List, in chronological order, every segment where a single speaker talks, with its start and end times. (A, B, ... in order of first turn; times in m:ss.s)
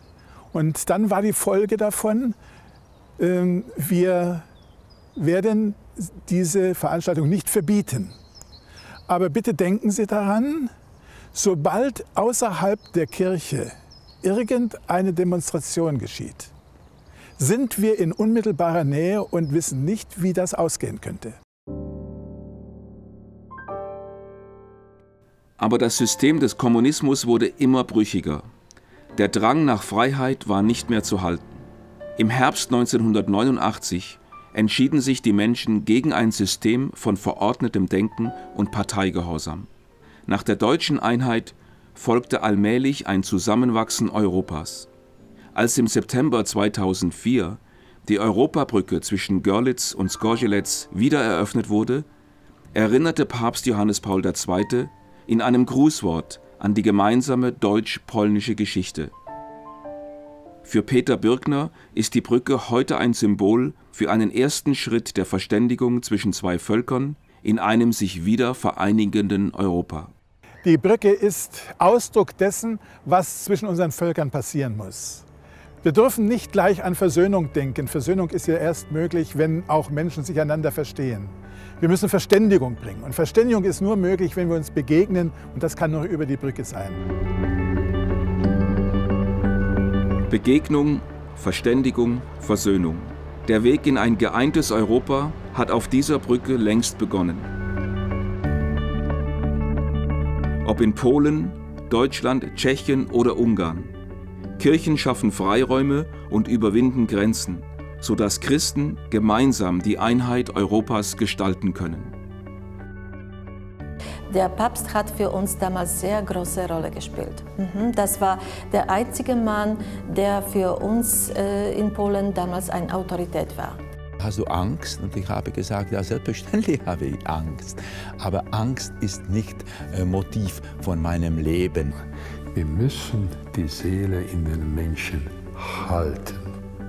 0:00.5-0:02.4 A
0:03.2-0:04.5 A
0:05.2-0:08.2 A
0:09.1-0:10.7 A
0:11.3-0:16.5 A
0:17.4-0:21.4 A
0:25.6-0:28.5 B
0:29.2-0:31.6 B
0:32.2-0:39.7 B
0:40.3-0:44.9 B
0:45.5-0:52.1 B
0:52.7-0:59.1 B
1:00.6-1:10.1 B
1:10.6-1:15.2 A
1:15.8-1:27.0 A
1:30.3-1:37.5 B
1:40.6-1:43.9 B
1:44.6-1:52.1 B
1:54.3-2:03.8 C
2:04.2-2:11.9 D
2:12.5-2:16.6 E